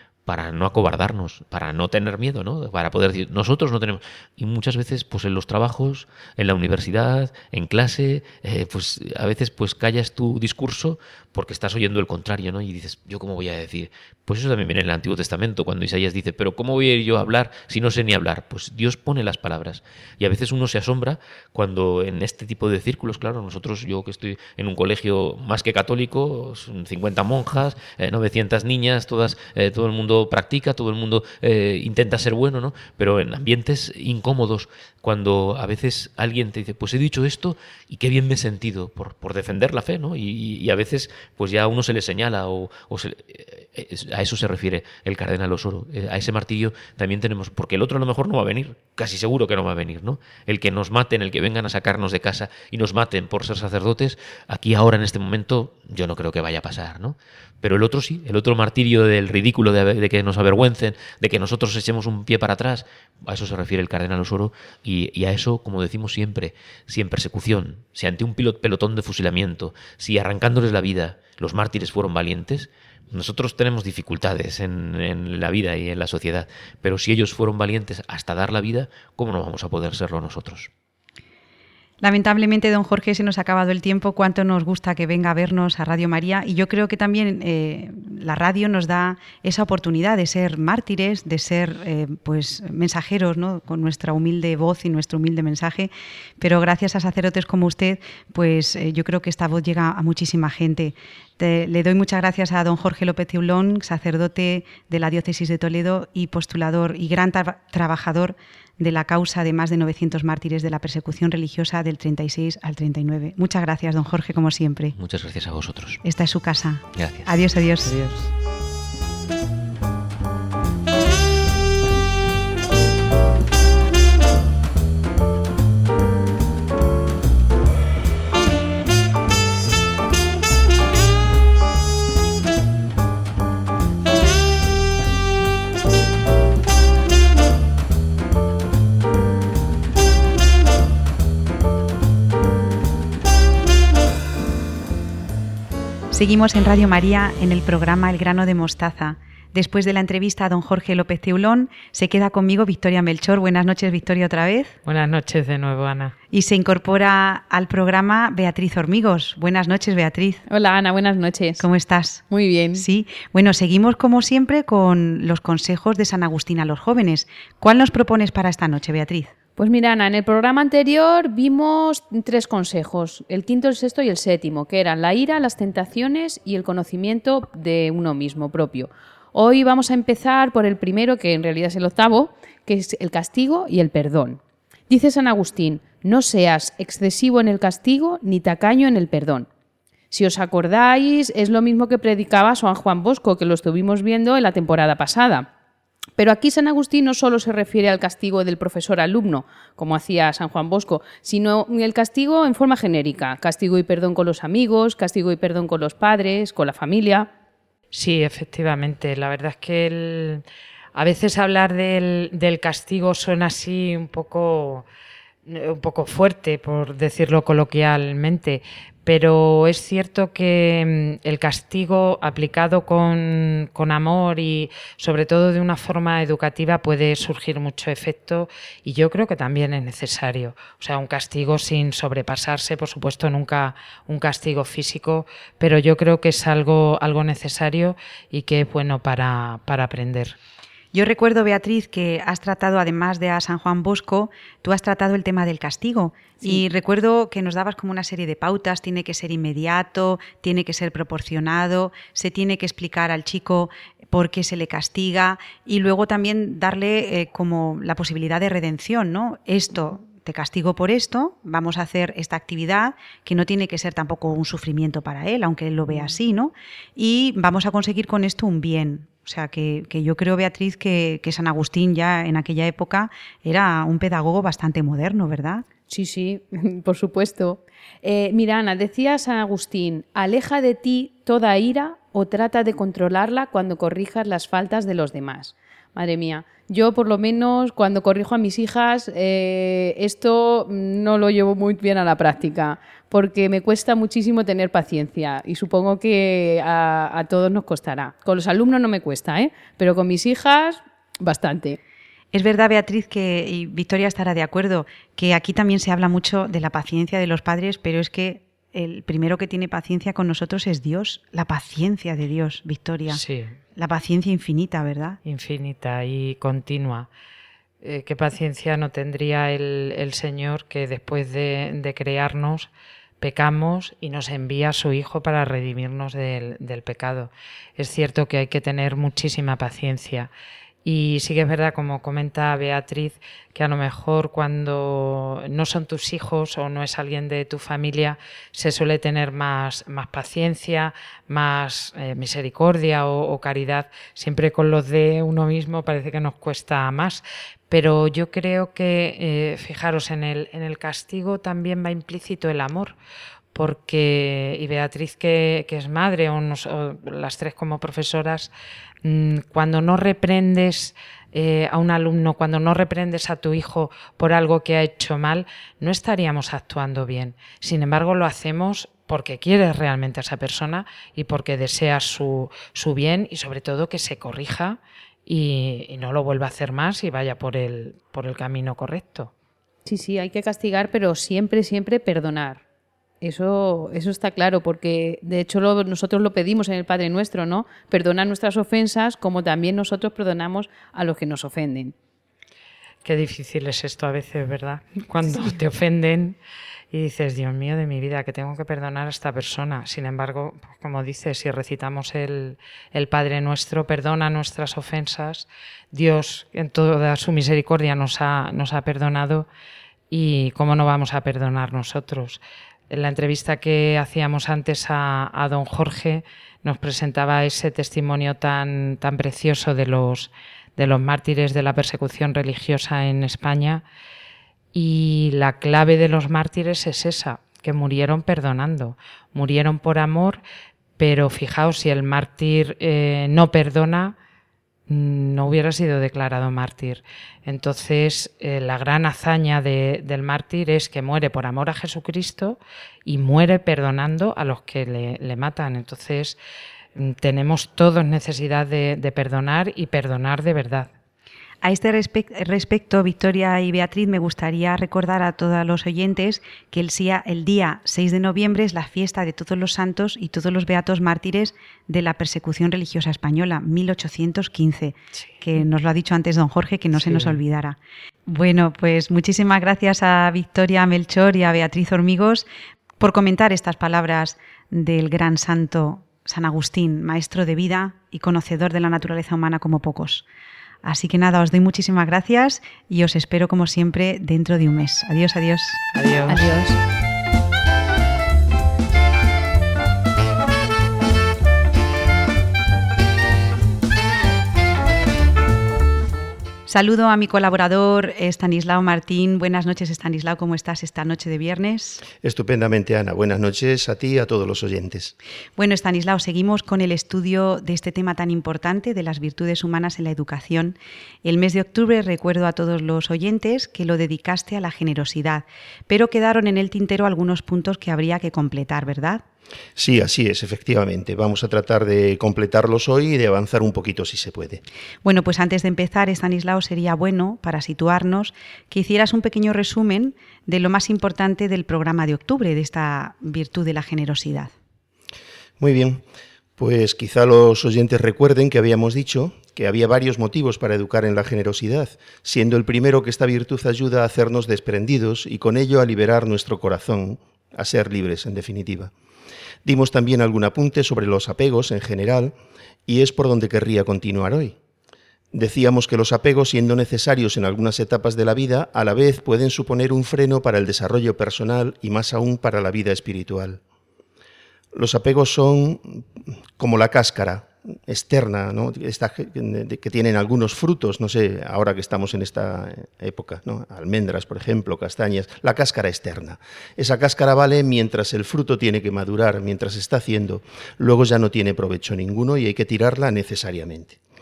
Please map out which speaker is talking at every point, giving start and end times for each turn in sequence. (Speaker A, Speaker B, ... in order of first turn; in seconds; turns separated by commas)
Speaker A: 0.2-80.7, Speaker B: 82.0-115.0, Speaker A: 114.9-116.0, Speaker B: 116.0-117.9, Speaker A: 116.9-117.4, Speaker C: 117.8-118.3, Speaker B: 146.1-154.8, Speaker C: 154.8-156.1, Speaker B: 156.3-160.4, Speaker D: 160.5-161.6, Speaker B: 161.6-169.3, Speaker D: 162.3-162.8, Speaker D: 169.6-184.4, Speaker D: 184.9-189.4, Speaker D: 190.1-195.4, Speaker D: 196.2-207.3, Speaker C: 207.9-210.4, Speaker C: 210.9-214.8, Speaker C: 215.4-240.4, Speaker B: 240.9-275.6, Speaker D: 275.9-301.8, Speaker B: 302.3-313.2, Speaker C: 313.1-313.6, Speaker B: 313.8-315.2, Speaker C: 315.2-317.1, Speaker C: 317.8-322.7, Speaker C: 323.2-330.3, Speaker C: 330.8-352.9, Speaker C: 353.5-358.5, Speaker C: 359.0-379.3, Speaker D: 379.9-382.6, Speaker D: 383.2-391.9, Speaker C: 393.0-396.4, Speaker C: 396.9-409.5, Speaker C: 410.1-423.8, Speaker C: 424.7-430.4, Speaker C: 431.0-434.1, Speaker C: 434.9-446.4, Speaker C: 446.9-450.9, Speaker B: 451.6-472.4, Speaker C: 467.0-467.4, Speaker B: 473.0-480.2, Speaker B: 480.8-486.7, Speaker C: 485.9-486.5, Speaker B: 496.7-502.0, Speaker E: 502.1-505.1, Speaker B: 505.6-519.2, Speaker E: 519.8-524.6, Speaker B: 525.0-534.5, Speaker E: 535.6-536.0, Speaker E: 536.6-548.9, Speaker E: 549.6-552.3, Speaker E: 552.9-554.5, Speaker E: 555.3-563.6, Speaker E: 564.7-566.0, Speaker E: 566.6-584.0